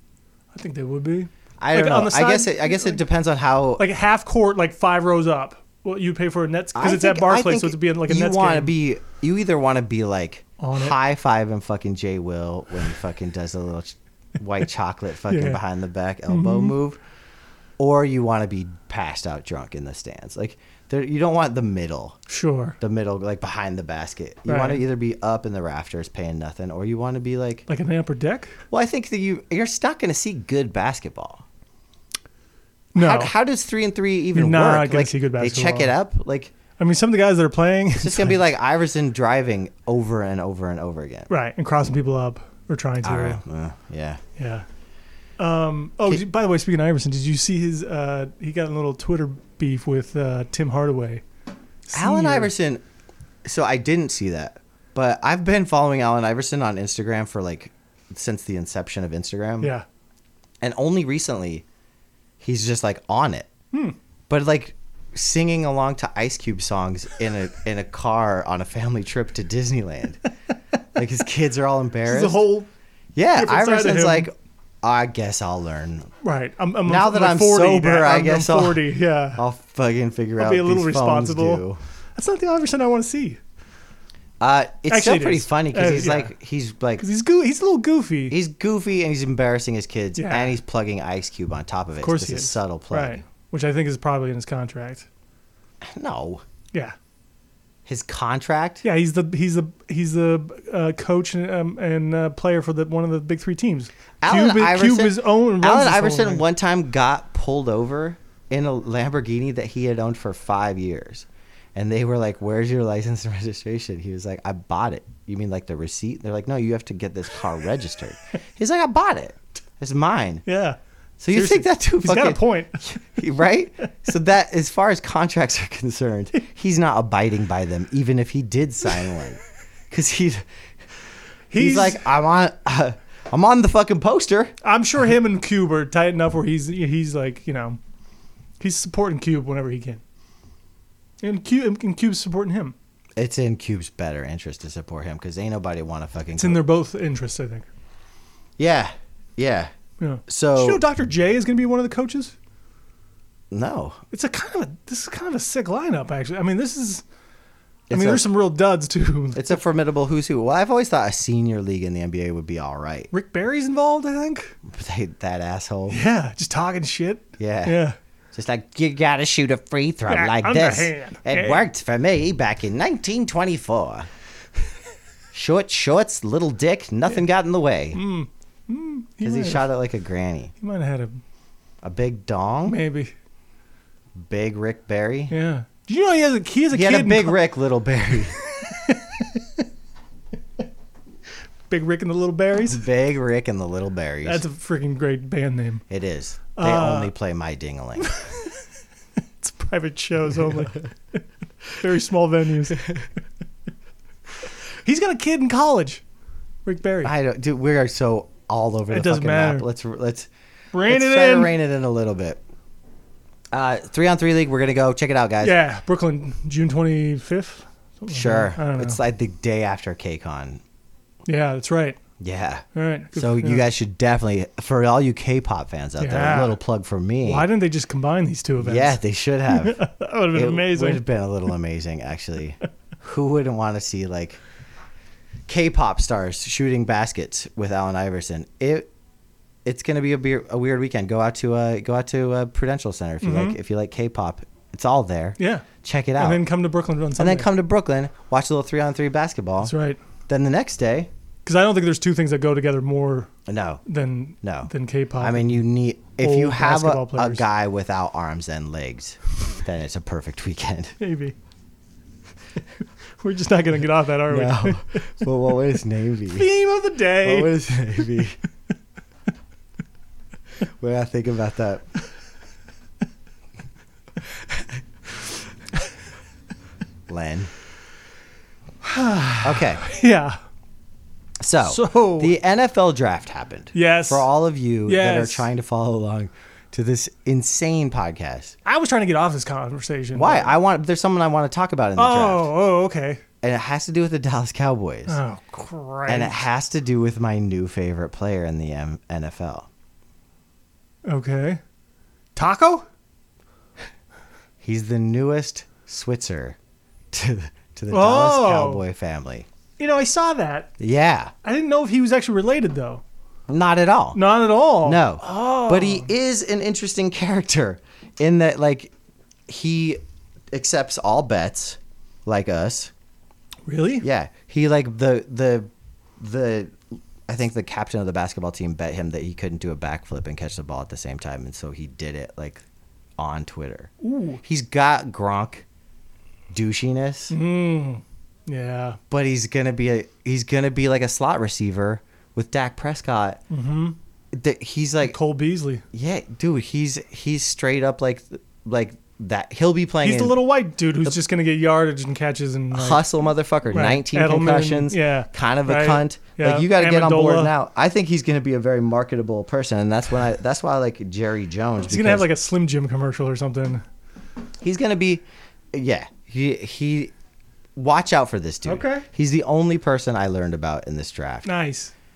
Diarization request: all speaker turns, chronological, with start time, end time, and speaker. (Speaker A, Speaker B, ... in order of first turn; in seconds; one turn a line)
Speaker A: 0.5-3.0
Speaker B: 1.6-3.8
Speaker A: 3.8-8.7
Speaker B: 6.7-17.0
Speaker A: 10.6-10.9
Speaker A: 15.3-15.6
Speaker A: 16.3-16.7
Speaker B: 17.8-22.2
Speaker A: 22.3-22.8
Speaker B: 22.8-27.6
Speaker A: 24.5-24.8
Speaker A: 27.7-28.6
Speaker B: 28.7-31.4
Speaker A: 32.9-33.3
Speaker B: 32.9-36.5
Speaker A: 34.3-35.9
Speaker A: 36.8-38.4
Speaker B: 38.0-41.3
Speaker A: 41.3-43.4
Speaker B: 43.0-44.2
Speaker A: 44.4-44.6
Speaker A: 45.4-51.2
Speaker A: 51.9-52.5
Speaker B: 51.9-52.8
Speaker B: 53.4-59.7
Speaker B: 60.6-61.6
Speaker B: 62.4-63.5
Speaker B: 64.3-70.2
Speaker B: 70.9-72.4
Speaker A: 72.0-72.7
Speaker B: 73.2-74.3
Speaker A: 73.3-74.3
Speaker B: 74.8-76.1
Speaker A: 76.2-79.4
Speaker B: 76.8-78.8
Speaker B: 79.3-81.8
Speaker A: 80.4-81.6
Speaker A: 82.2-83.4
Speaker B: 84.4-87.0
Speaker A: 84.9-86.3
Speaker A: 87.0-88.3
Speaker B: 88.3-93.2
Speaker A: 90.2-90.5
Speaker A: 92.0-95.1
Speaker B: 95.8-96.4
Speaker B: 97.8-98.8
Speaker A: 98.8-106.4
Speaker B: 104.2-120.4
Speaker A: 120.5-120.8
Speaker B: 121.2-130.4
Speaker A: 121.3-123.0
Speaker A: 131.5-132.1
Speaker B: 131.6-134.5
Speaker A: 134.6-137.8
Speaker A: 138.6-140.0
Speaker A: 141.2-142.7
Speaker B: 143.2-146.6
Speaker A: 146.3-147.7
Speaker B: 148.6-149.7
Speaker A: 150.0-152.3
Speaker B: 150.3-150.8
Speaker B: 153.5-154.0
Speaker A: 154.1-157.0
Speaker B: 157.9-158.3
Speaker A: 157.9-159.6
Speaker B: 159.3-163.1
Speaker A: 163.1-164.6
Speaker B: 164.7-166.0
Speaker A: 165.9-167.9
Speaker B: 167.4-167.8
Speaker B: 168.3-174.1
Speaker A: 170.1-171.6
Speaker B: 175.3-178.0
Speaker A: 177.9-179.7
Speaker B: 179.2-180.5
Speaker A: 180.6-181.2
Speaker B: 181.8-182.8
Speaker A: 182.7-183.1
Speaker B: 184.2-185.3
Speaker A: 185.3-187.4
Speaker B: 186.7-188.3
Speaker A: 188.4-189.6
Speaker A: 191.7-192.8
Speaker B: 192.7-194.4
Speaker A: 194.2-195.8
Speaker B: 195.9-198.1
Speaker A: 196.5-197.1
Speaker A: 198.0-198.6
Speaker A: 199.4-201.2
Speaker A: 201.7-203.0
Speaker A: 204.7-206.0
Speaker A: 206.6-207.1
Speaker B: 207.0-210.3
Speaker A: 208.9-209.7
Speaker A: 210.7-211.5
Speaker B: 210.9-212.4
Speaker B: 213.5-215.6
Speaker A: 215.4-219.0
Speaker B: 218.1-220.6
Speaker A: 221.2-222.0
Speaker B: 222.2-222.6
Speaker A: 222.7-223.7
Speaker B: 223.1-227.5
Speaker A: 226.0-226.6
Speaker A: 227.2-231.0
Speaker B: 228.6-229.8
Speaker B: 230.3-234.4
Speaker B: 235.5-238.9
Speaker B: 239.6-246.4
Speaker A: 243.2-243.6
Speaker A: 245.4-247.5
Speaker B: 247.2-249.7
Speaker A: 249.6-250.0
Speaker B: 250.3-251.1
Speaker A: 251.4-253.3
Speaker B: 253.5-253.8
Speaker A: 253.8-255.6
Speaker B: 254.4-260.9
Speaker A: 256.2-257.4
Speaker A: 261.0-261.3
Speaker A: 263.2-265.1
Speaker B: 264.3-266.5
Speaker A: 266.3-268.1
Speaker B: 267.2-268.4
Speaker B: 270.8-271.8
Speaker B: 277.1-277.5
Speaker A: 278.8-280.4
Speaker B: 279.4-279.8
Speaker B: 281.4-288.5
Speaker A: 281.6-282.3
Speaker A: 283.7-284.3
Speaker A: 284.9-285.5
Speaker A: 288.6-290.5
Speaker B: 290.1-292.5
Speaker A: 291.9-293.2
Speaker B: 293.4-295.2
Speaker A: 295.1-296.4
Speaker B: 296.1-299.7
Speaker A: 301.1-301.6
Speaker A: 302.4-302.9
Speaker B: 304.6-306.6
Speaker B: 307.1-309.5
Speaker A: 307.9-308.8
Speaker A: 309.8-310.7
Speaker B: 310.8-311.3
Speaker A: 311.4-313.0
Speaker B: 313.5-314.2
Speaker A: 314.1-316.1
Speaker B: 314.8-318.9
Speaker B: 319.5-320.0
Speaker B: 320.5-322.9
Speaker A: 323.6-324.1
Speaker B: 324.0-332.6
Speaker B: 333.2-333.9
Speaker A: 334.0-334.4
Speaker B: 334.4-335.6
Speaker B: 336.5-337.3
Speaker A: 337.3-339.0
Speaker B: 339.1-343.4
Speaker A: 343.5-343.9
Speaker B: 344.3-345.1
Speaker A: 345.0-345.8
Speaker B: 345.9-350.4
Speaker A: 350.0-353.1
Speaker B: 352.7-362.3
Speaker A: 353.7-357.5
Speaker A: 361.8-363.8
Speaker B: 364.6-367.1
Speaker B: 367.8-371.5
Speaker A: 368.6-369.1
Speaker A: 371.4-371.9